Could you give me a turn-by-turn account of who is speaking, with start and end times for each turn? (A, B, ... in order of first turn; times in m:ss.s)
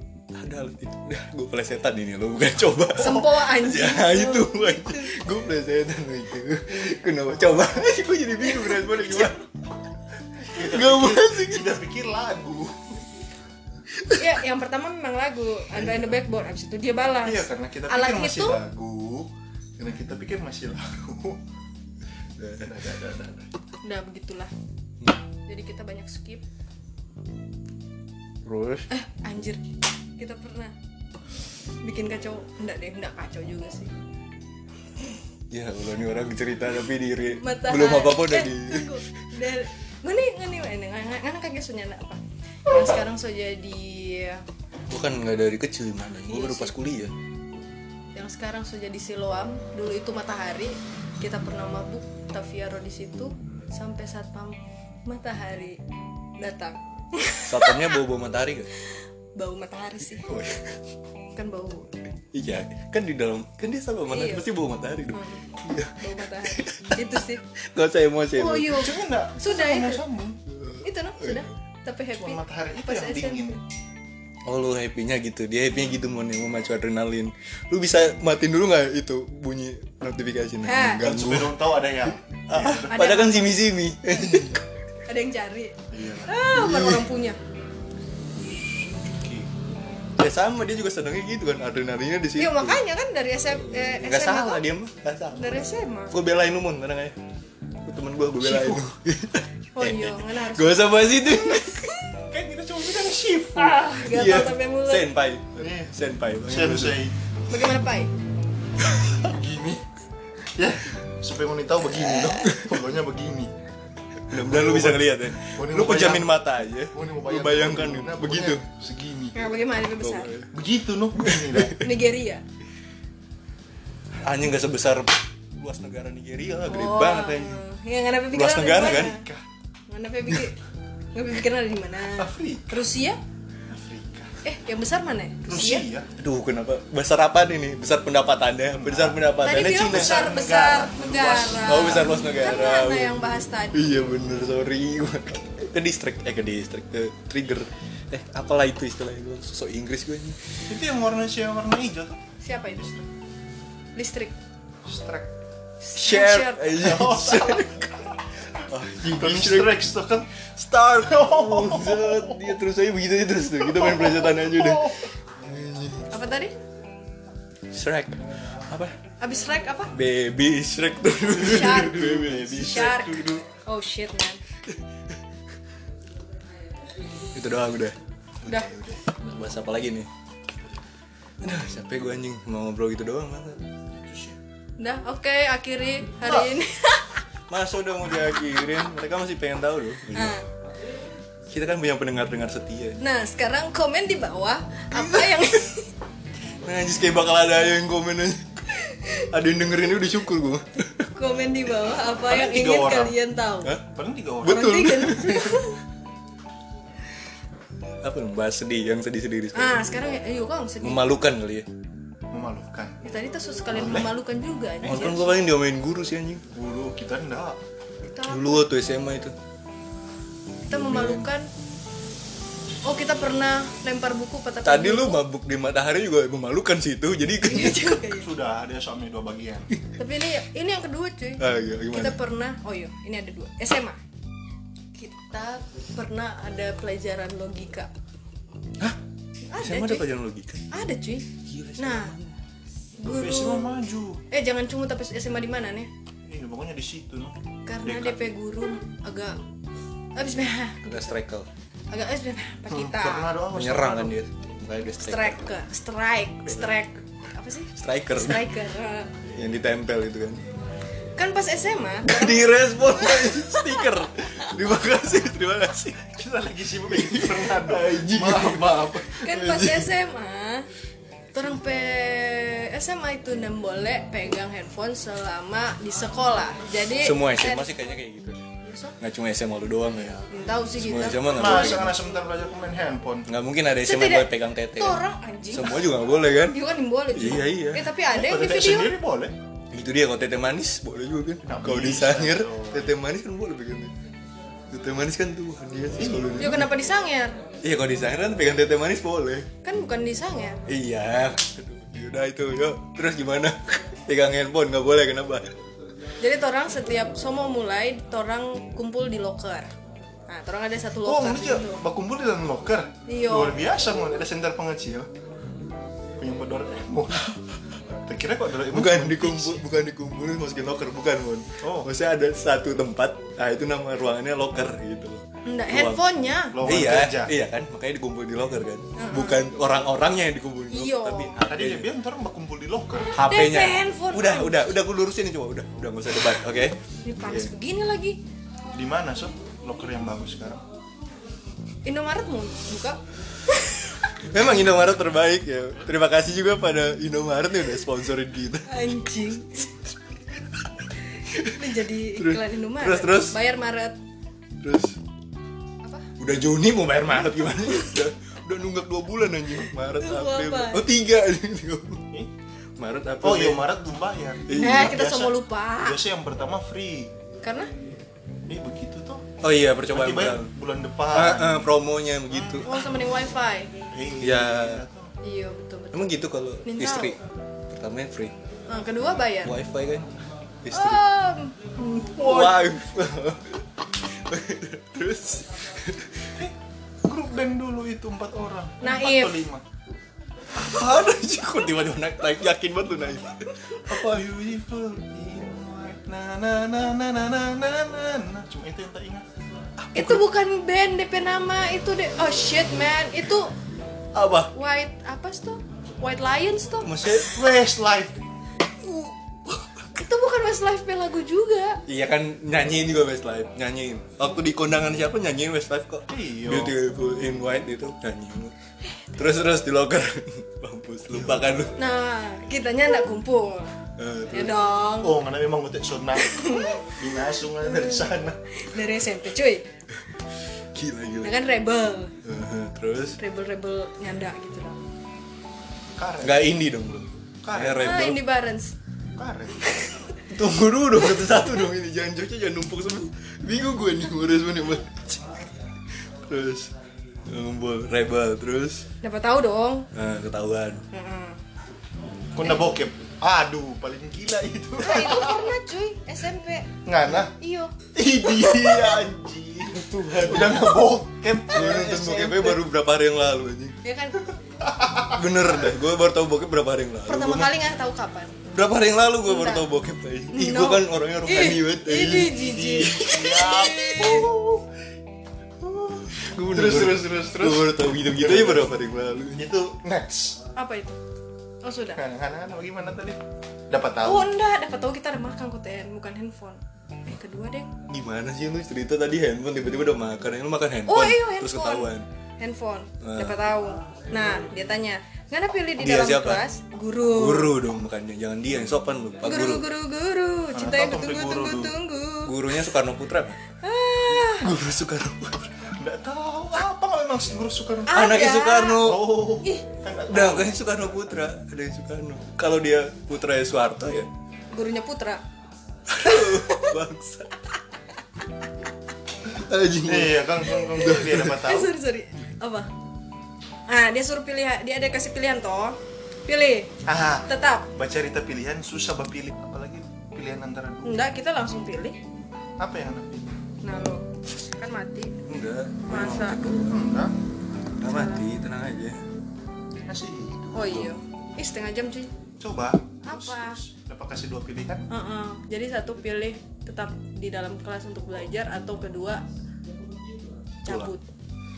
0:00.3-0:09.4 A
0:03.0-0:05.2 B
0:08.4-0:09.4 B
0:10.4-0:13.0 C
0:10.5-0:11.8 A
0:13.9-0:14.3 A
0:14.1-0:18.6 B
0:17.2-0:21.4 C
0:22.4-0:22.7 A
0:22.6-0:23.5 C
0:23.8-0:24.5 B
0:25.5-0:26.4 B
0:28.4-0:28.9 A
0:28.9-0:29.6 B
0:30.2-0:30.7 B
0:31.8-0:33.9 B
0:35.5-0:39.0 A
0:37.3-0:44.4 B
0:44.9-0:47.1 A
0:46.2-0:46.8 B
0:48.2-0:55.8 B
0:56.4-0:58.0 B
0:57.4-0:58.7 A
0:58.8-1:00.3 B
1:00.2-1:00.8 A
1:01.4-1:01.9 B
1:02.3-1:07.0 A
1:04.1-1:04.5 B
1:05.1-1:07.4 B
1:07.6-1:08.9 A
1:08.4-1:10.0 B
1:08.7-1:10.4 C
1:10.5-1:11.4 A
1:10.8-1:13.6 B
1:12.2-1:13.6 C
1:14.4-1:24.6 A
1:20.6-1:21.1 B
1:21.0-1:23.0 C
1:22.9-1:23.6 B
1:25.1-1:27.4 B
1:25.9-1:26.4 C
1:26.5-1:27.1 A
1:29.0-1:29.5 C
1:30.2-1:32.8 A
1:32.4-1:34.6 B
1:33.5-1:37.2 A
1:35.4-1:36.2 B
1:37.8-1:41.9 A
1:38.4-1:38.8 C
1:39.8-1:42.2 B
1:42.3-1:43.9 C
1:43.6-1:45.1 B
1:44.0-1:47.0 A
1:45.6-1:45.9 C
1:46.5-1:47.2 C
1:47.5-1:48.1 B
1:49.1-1:49.8 C
1:50.6-1:53.5 C
1:52.2-1:52.7 A
1:54.3-1:58.7 A
1:54.3-1:56.4 C
1:56.9-1:59.5 C
1:59.3-2:00.3 B
2:00.0-2:00.5 A
2:00.5-2:01.8 C
2:01.2-2:01.7 A
2:01.7-2:02.4 B
2:04.2-2:07.6 A
2:06.7-2:09.2 B
2:08.3-2:09.2 A
2:08.8-2:09.4 C
2:09.9-2:10.6 B
2:11.1-2:13.2 B
2:12.1-2:12.8 C
2:13.7-2:14.4 C
2:14.4-2:15.9 B
2:15.4-2:16.1 C
2:16.2-2:20.2 A
2:18.7-2:22.2 C
2:19.4-2:23.8 B
2:21.6-2:30.4 A
2:30.7-2:33.1 C
2:32.4-2:32.9 B
2:34.0-2:34.4 B
2:34.8-2:35.3 C
2:35.8-2:36.7 B
2:36.0-2:37.9 A
2:36.7-2:38.1 C
2:38.6-2:39.8 A
2:39.0-2:40.3 C
2:40.6-2:46.1 A
2:41.0-2:42.5 C
2:43.6-2:45.1 C
2:46.1-2:46.5 B
2:47.7-2:49.0 A
2:49.2-2:49.9 B
2:49.9-2:53.2 A
2:51.3-2:54.4 B
2:51.5-2:53.4 C
2:57.3-2:58.0 A
2:58.4-2:59.0 C
2:59.2-3:00.1 A
3:01.4-3:03.6 A
3:03.9-3:04.4 C
3:04.8-3:07.2 B
3:06.2-3:06.6 C
3:07.5-3:10.4 A
3:10.1-3:10.5 B
3:11.5-3:13.0 A
3:13.0-3:15.9 B
3:14.9-3:15.6 A
3:16.6-3:21.1 A
3:18.7-3:19.3 B
3:21.0-3:23.8 B
3:22.2-3:23.2 C
3:23.6-3:23.9 A
3:23.8-3:25.1 C
3:24.4-3:25.6 A
3:24.4-3:25.8 B
3:28.0-3:29.8 A
3:29.6-3:31.1 B
3:30.8-3:31.7 A
3:32.3-3:33.0 C
3:33.0-3:35.4 B
3:33.7-3:34.1 C
3:34.8-3:36.4 A
3:36.5-3:37.6 C
3:38.0-3:38.7 B
3:38.3-3:39.4 A
3:40.7-3:41.3 A
3:40.7-3:41.5 B
3:42.8-3:45.2 B
3:44.6-3:48.0 A
3:47.4-3:48.3 B
3:48.2-3:49.7 C
3:49.9-3:54.0 B
3:51.4-3:52.2 A
3:55.0-3:57.9 B
3:59.5-4:00.1 B
3:59.6-4:00.6 A
4:00.7-4:02.2 B
4:01.4-4:02.4 A
4:03.0-4:03.7 B
4:03.1-4:04.2 C
4:04.3-4:05.9 B
4:06.3-4:08.3 C
4:07.7-4:09.4 B
4:10.2-4:11.2 B
4:10.8-4:11.5 A
4:11.9-4:13.3 B
4:12.7-4:14.2 C
4:13.5-4:15.5 A
4:15.0-4:19.2 B
4:17.8-4:18.5 A
4:19.3-4:20.4 A
4:21.2-4:24.5 B
4:22.0-4:26.2 A
4:26.1-4:29.1 C
4:26.9-4:29.9 A
4:29.2-4:30.7 B
4:31.3-4:37.7 B
4:37.0-4:38.4 A
4:38.6-4:39.0 B
4:39.0-4:42.0 A
4:40.3-4:41.9 B
4:41.3-4:43.3 C
4:43.3-4:46.6 A
4:43.8-4:49.0 B
4:47.1-4:47.9 A
4:48.1-4:49.4 C
4:49.7-4:53.9 A
4:51.4-4:52.9 C
4:54.7-4:56.7 A
4:56.0-4:56.7 C
4:56.4-4:57.4 B
4:57.6-4:59.5 A
4:59.6-5:00.6 B
5:00.7-5:05.6 A
5:06.2-5:09.7 B
5:10.3-5:11.8 B
5:11.0-5:15.1 C
5:13.1-5:13.6 B
5:16.2-5:17.4 C
5:18.0-5:19.6 C
5:18.7-5:26.0 A
5:21.6-5:21.9 C
5:25.4-5:26.6 B
5:26.5-5:27.3 C
5:26.6-5:31.9 A
5:29.0-5:29.5 B
5:30.7-5:31.4 B
5:31.4-5:33.1 C
5:33.1-5:37.5 A
5:33.2-5:34.7 B
5:37.0-5:38.2 B
5:38.7-5:40.6 C
5:41.8-5:43.9 B
5:44.3-5:48.7 A
5:48.7-5:49.8 B
5:51.3-5:53.4 A
5:51.3-5:54.0 B
5:54.6-5:55.0 A
5:55.8-5:56.1 B
5:56.2-6:02.0 A
6:00.0-6:00.9 B
6:02.8-6:03.7 A
6:03.2-6:07.1 C
6:04.5-6:05.1 A
6:04.5-6:06.0 B
6:07.4-6:07.7 B
6:08.5-6:09.3 C
6:09.4-6:10.5 A
6:09.9-6:11.7 C
6:11.1-6:12.7 A
6:12.3-6:12.7 C
6:12.6-6:13.7 B
6:13.9-6:15.1 C
6:14.2-6:14.8 A
6:15.2-6:17.2 B
6:15.9-6:18.4 A
6:18.7-6:19.6 B
6:19.4-6:20.1 A
6:20.6-6:21.0 A
6:20.7-6:22.2 B
6:22.1-6:26.3 A
6:22.2-6:22.7 C
6:26.4-6:29.6 C
6:28.8-6:29.4 B
6:30.6-6:33.8 A
6:33.8-6:39.2 C
6:39.8-6:40.2 A
6:40.0-6:43.6 B
6:44.1-6:44.5 A
6:44.5-6:47.0 B
6:46.8-6:47.4 A
6:47.1-6:48.2 C
6:48.8-6:49.8 A
6:50.0-6:51.8 B
6:51.9-6:58.6 A
6:56.1-6:56.8 C
6:59.1-7:01.8 A
7:01.1-7:01.5 C
7:01.8-7:03.7 B
7:04.0-7:04.6 A
7:04.3-7:05.1 B
7:05.0-7:08.4 C
7:06.2-7:09.6 B
7:10.7-7:11.4 A
7:11.2-7:12.2 B
7:12.2-7:13.2 A
7:13.2-7:14.8 B
7:16.0-7:16.6 C
7:16.2-7:18.2 A
7:17.4-7:18.1 C
7:17.8-7:18.8 B
7:19.2-7:19.6 C
7:20.2-7:25.5 A
7:26.0-7:26.7 A
7:27.3-7:28.9 A
7:29.0-7:29.9 B
7:29.9-7:30.8 A
7:30.9-7:31.4 B
7:32.3-7:35.6 C
7:34.8-7:37.8 B
7:36.8-7:37.3 C
7:37.9-7:42.6 C
7:38.5-7:38.9 B
7:39.6-7:40.9 A
7:41.5-7:43.8 A
7:43.8-7:44.4 B
7:44.6-7:45.2 C
7:45.2-7:47.5 A
7:47.1-7:48.4 B
7:48.5-7:54.2 A
7:49.2-7:49.7 B
7:50.3-7:54.3 B
7:52.8-7:54.6 C
7:55.6-7:58.8 C
7:56.1-7:59.5 A
7:59.4-8:00.4 C
8:00.6-8:01.0 B
8:01.6-8:02.0 B
8:02.0-8:04.3 C
8:04.0-8:07.7 B
8:07.9-8:12.1 A
8:10.9-8:17.6 B
8:13.0-8:13.4 A
8:15.8-8:16.4 A
8:17.1-8:19.7 A
8:19.2-8:22.5 B
8:20.5-8:21.8 C
8:22.2-8:23.4 A
8:23.6-8:24.5 B
8:24.3-8:25.7 A
8:25.8-8:30.8 C
8:27.9-8:28.9 B
8:27.9-8:29.2 A
8:29.4-8:29.7 B
8:30.1-8:34.1 A
8:34.5-8:35.2 B
8:35.9-8:37.5 A
8:36.0-8:36.8 B
8:39.3-8:41.4 A
8:39.8-8:41.7 C
8:41.2-8:42.7 B
8:43.7-8:46.7 B
8:46.8-8:51.1 C
8:47.3-8:47.7 B
8:50.8-8:52.0 B
8:52.6-8:53.3 C
8:53.6-8:55.2 B
8:55.3-8:56.8 A
8:55.9-8:56.4 B
8:56.7-8:57.1 C
8:57.8-8:59.0 A
8:57.8-8:58.2 B
8:59.9-9:00.9 C
9:00.5-9:02.1 B
9:02.4-9:04.9 C
9:03.0-9:03.6 B
9:04.9-9:09.2 B
9:10.6-9:11.0 B
9:10.7-9:10.9 A